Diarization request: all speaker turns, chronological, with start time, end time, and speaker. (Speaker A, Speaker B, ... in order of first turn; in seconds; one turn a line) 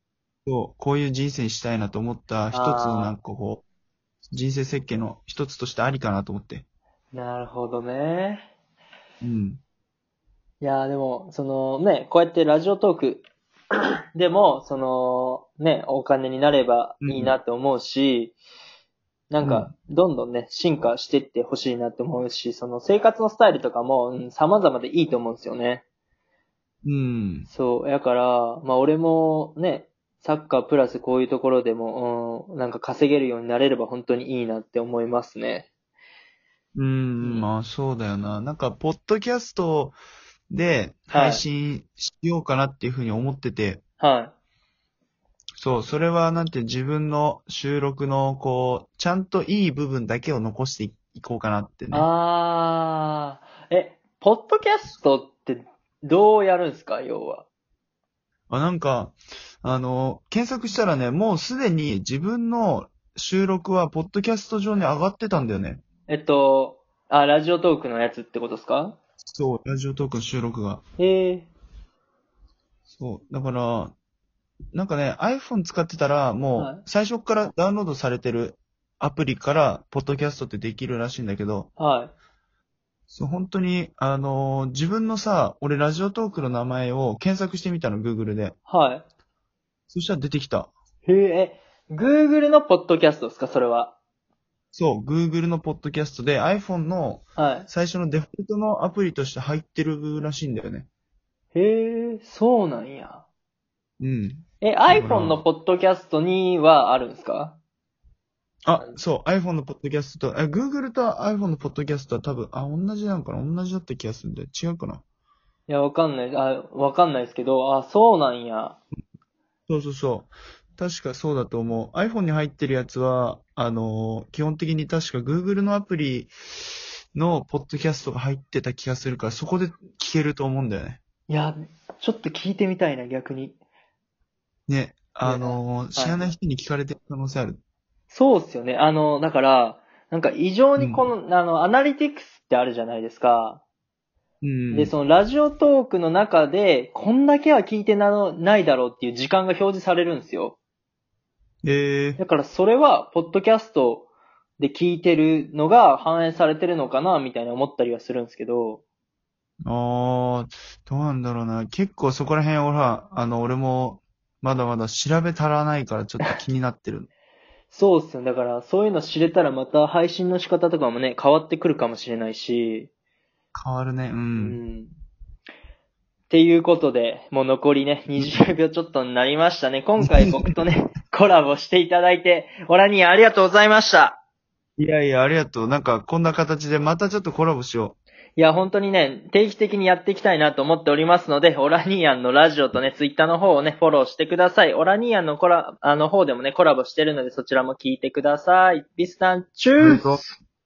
Speaker A: 0.5-3.6
Speaker B: 2.5-3.1
Speaker A: 4.3-6.6
Speaker B: 7.1-8.4
Speaker A: 9.2-9.6
Speaker B: 10.6-13.2
Speaker B: 14.1-18.4
Speaker A: 17.0-17.3
Speaker B: 19.3-25.8
Speaker A: 19.4-19.7
Speaker A: 26.8-27.5
Speaker B: 27.5-35.7
Speaker A: 36.7-40.0
Speaker B: 37.2-37.5
Speaker A: 40.5-43.8
Speaker B: 41.1-41.4
Speaker B: 44.0-44.3
Speaker A: 45.6-52.1
Speaker B: 51.9-57.5
Speaker A: 58.5-65.8
Speaker B: 66.1-69.0
Speaker A: 69.2-70.8
Speaker B: 71.0-71.5
Speaker A: 72.9-73.9
Speaker A: 74.7-81.7
Speaker B: 76.6-76.8
Speaker B: 81.8-82.1
Speaker A: 83.1-88.5
Speaker B: 88.7-89.0
Speaker A: 89.9-90.7
Speaker B: 91.0-94.0
Speaker A: 94.7-100.9
Speaker B: 97.4-97.7
Speaker B: 101.5-103.2
Speaker A: 104.0-105.4
Speaker B: 104.6-107.6
Speaker A: 108.7-115.0
Speaker B: 115.7-118.8
Speaker A: 119.7-131.0
Speaker B: 131.3-133.6
Speaker A: 134.7-137.6
Speaker B: 135.2-136.3
Speaker B: 138.1-143.6
Speaker A: 140.8-141.1
Speaker A: 144.4-144.9
Speaker B: 144.7-150.6
Speaker A: 151.6-152.2
Speaker B: 152.2-154.1
Speaker B: 154.6-158.8
Speaker A: 159.6-167.1
Speaker B: 167.7-172.9
Speaker A: 173.5-174.6
Speaker B: 174.3-174.9
Speaker B: 176.3-184.2
Speaker A: 180.0-180.2
Speaker A: 184.8-188.0
Speaker B: 188.4-200.3
Speaker A: 199.8-200.2